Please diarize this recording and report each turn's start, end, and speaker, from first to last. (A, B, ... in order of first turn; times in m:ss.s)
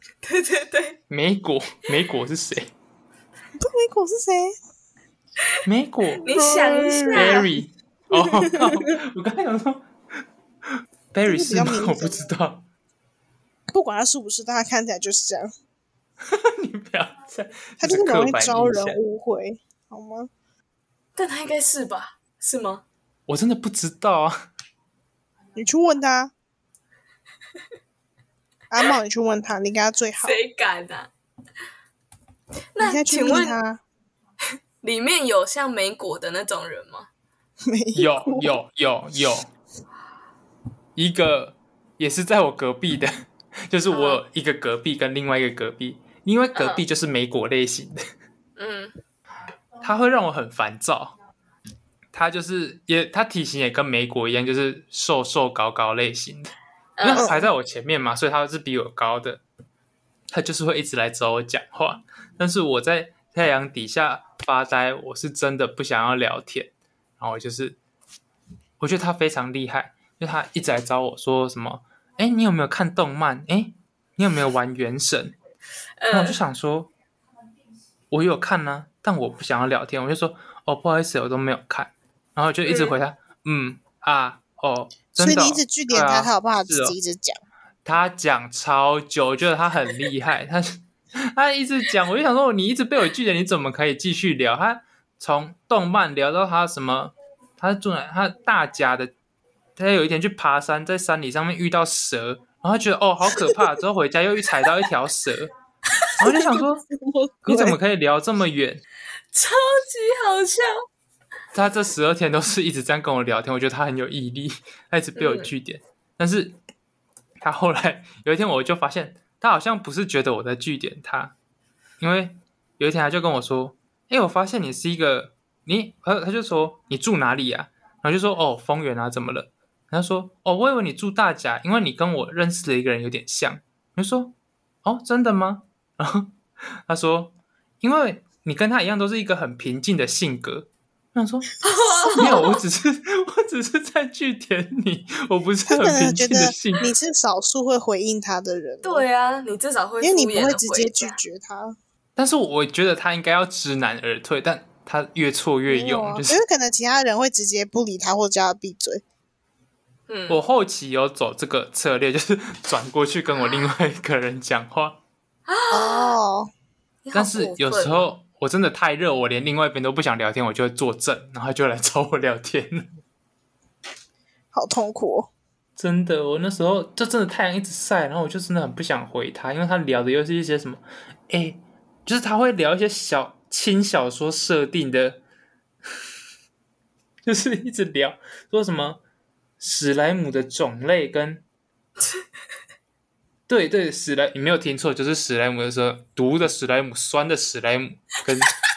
0:00.2-0:01.0 A
0:01.1-0:02.7 B
0:03.6-0:04.5 C
0:05.6-0:09.9 B
0:06.2-0:07.5 A
0:06.3-0:07.5 C
0:08.1-0:08.7 C
0:10.8-0:12.6 B
0:11.3-0:12.3 C
0:13.7-0:15.5 C
0:16.2-0:19.0 B
0:17.8-0:20.3 C
0:21.2-0:22.8 A
0:23.3-0:24.4 B
0:25.6-0:26.3 C
0:28.7-0:30.4 C
0:30.2-0:31.1 A
0:32.7-0:33.6 A
0:32.8-0:33.8 C
0:34.8-0:37.1 A
0:37.6-0:38.6 C
0:38.0-0:39.5 B
0:41.0-0:48.0 B
0:43.9-0:44.2 A
0:46.5-0:46.8 A
0:48.6-0:49.0 A
0:49.8-0:51.1 B
0:52.1-0:59.4 B
0:57.0-0:57.3 A
0:57.1-0:57.5 C
1:00.3-1:07.8 B
1:08.8-1:15.4 B
1:16.0-1:16.4 A
1:16.1-1:16.9 B
1:18.1-1:27.0 B
1:22.6-1:23.0 A
1:25.2-1:27.4 C
1:27.8-1:39.1 B
1:39.8-1:45.5 B
1:46.2-1:46.9 B
1:46.2-1:47.8 C
1:47.4-1:48.8 B
1:49.3-1:50.8 A
1:51.5-1:56.6 B
1:55.2-1:55.5 A
1:57.4-2:01.3 B
2:02.0-2:21.5 B
2:21.6-2:22.6 A
2:22.0-2:22.4 C
2:22.1-2:26.9 B
2:25.6-2:29.0 C
2:28.8-2:31.2 A
2:30.0-2:31.8 C
2:32.2-2:36.4 B
2:35.7-2:39.0 C
2:40.1-2:40.4 A
2:40.3-2:45.0 B
2:45.5-2:46.1 A
2:45.7-2:46.5 C
2:47.0-2:48.1 A
2:47.1-2:52.9 B
2:54.5-2:55.3 C
2:55.8-3:05.2 B
3:07.2-3:09.0 B
3:09.6-3:11.4 B
3:13.5-3:18.5 B